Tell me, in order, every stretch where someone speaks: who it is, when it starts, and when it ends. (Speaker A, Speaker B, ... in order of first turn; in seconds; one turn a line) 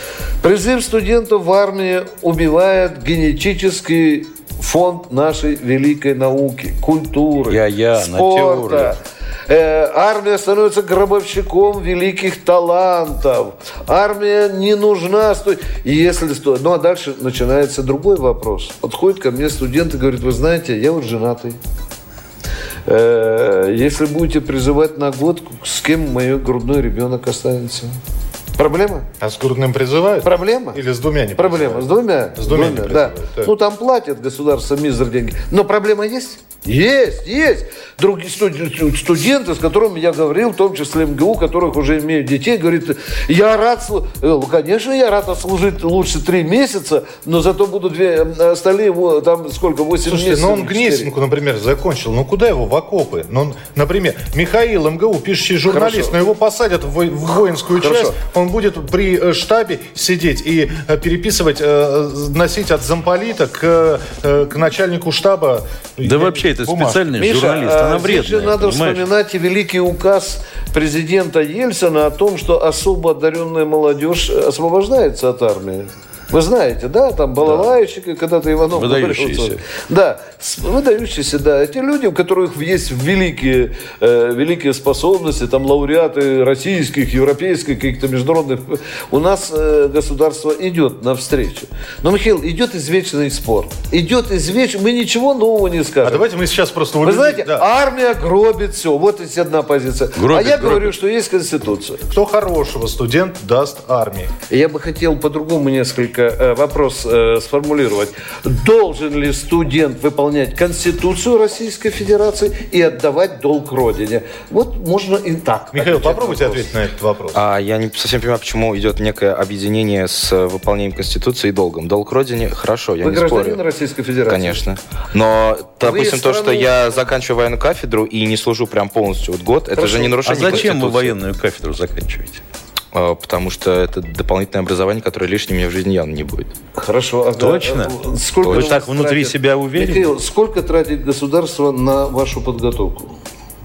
Speaker A: 0.4-21.6
Speaker B: 7.5-9.0
Speaker A: 22.9-28.0
Speaker A: 28.6-29.1
Speaker C: 29.2-33.5
Speaker A: 30.2-30.8
Speaker A: 31.4-51.1
Speaker C: 50.0-67.0
Speaker A: 55.7-56.1
Speaker A: 57.8-58.2
Speaker B: 66.0-69.0
Speaker A: 67.2-96.3
Speaker B: 78.7-79.6
Speaker C: 96.0-97.7
Speaker A: 97.0-102.0
Speaker B: 100.2-101.0
Speaker C: 102.1-104.3
Speaker A: 104.5-116.7
Speaker C: 115.7-117.4
Speaker D: 117.3-123.6
Speaker A: 123.0-124.7
Speaker D: 124.3-131.2
Speaker A: 125.8-127.0
Speaker A: 129.8-130.7
Speaker B: 130.2-132.4
Speaker D: 132.9-136.5
Speaker A: 136.8-143.2
Speaker B: 137.4-140.1
Speaker D: 138.4-138.7